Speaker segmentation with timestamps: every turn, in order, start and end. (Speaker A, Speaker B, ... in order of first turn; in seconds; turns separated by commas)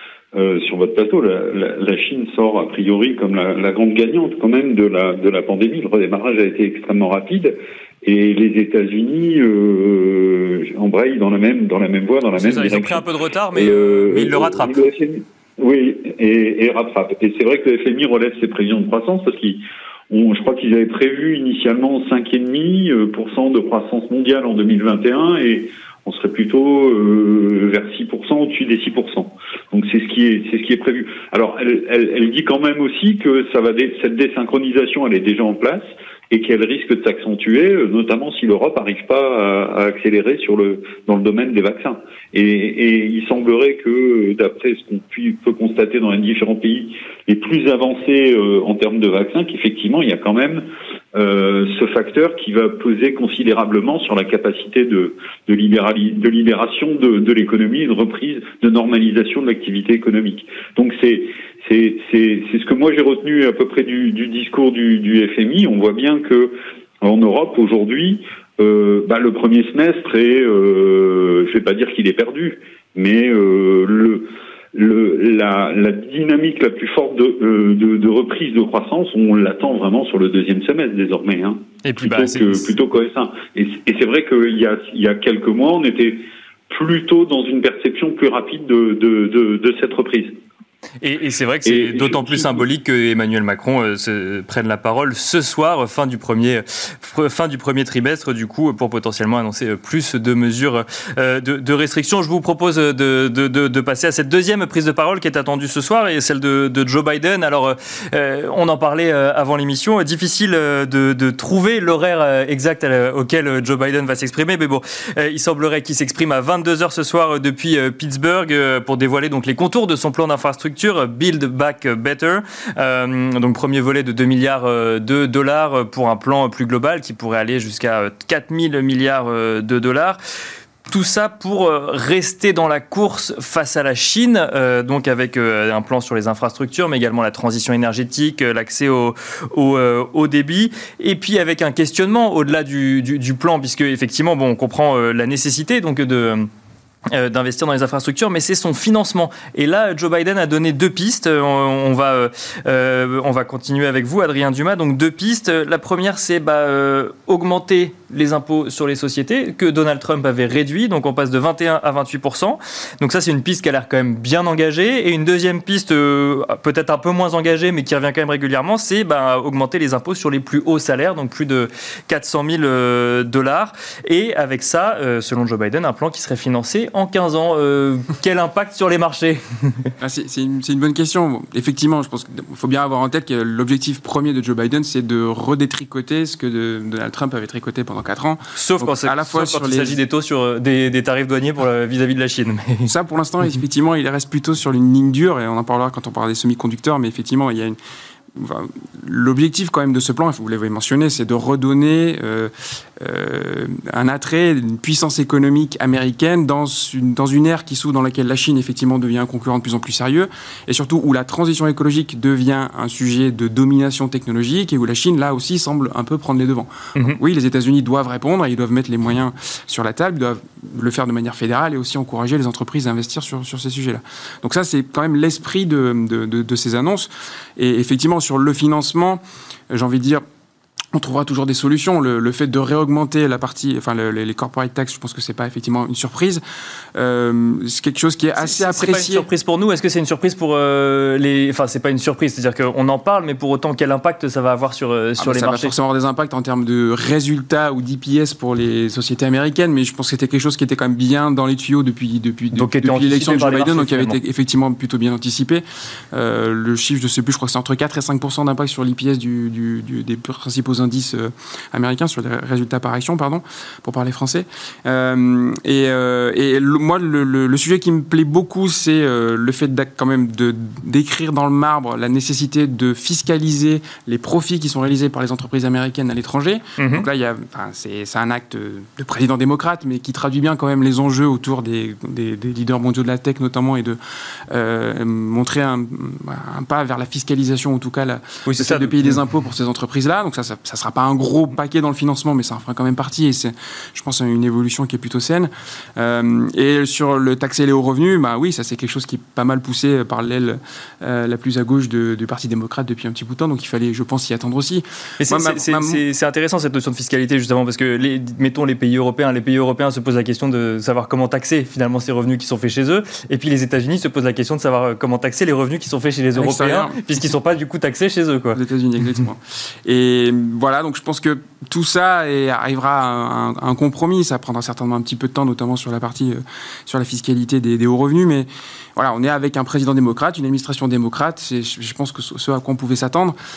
Speaker A: 0.3-13.0, Speaker B: 12.4-14.8, Speaker A: 13.5-90.4, Speaker B: 81.8-82.8, Speaker B: 91.0-130.2, Speaker A: 91.7-92.6, Speaker B: 130.9-146.5, Speaker B: 147.1-179.9, Speaker C: 180.0-190.0, Speaker B: 188.6-192.9, Speaker C: 192.9-197.8, Speaker C: 198.3-230.2, Speaker C: 230.9-236.4, Speaker C: 236.9-239.3, Speaker B: 238.4-245.8, Speaker C: 245.2-284.0, Speaker B: 252.5-254.2, Speaker B: 276.8-277.1, Speaker C: 284.5-306.0, Speaker B: 288.5-289.2, Speaker B: 305.2-318.6, Speaker C: 316.4-317.3, Speaker C: 318.6-333.4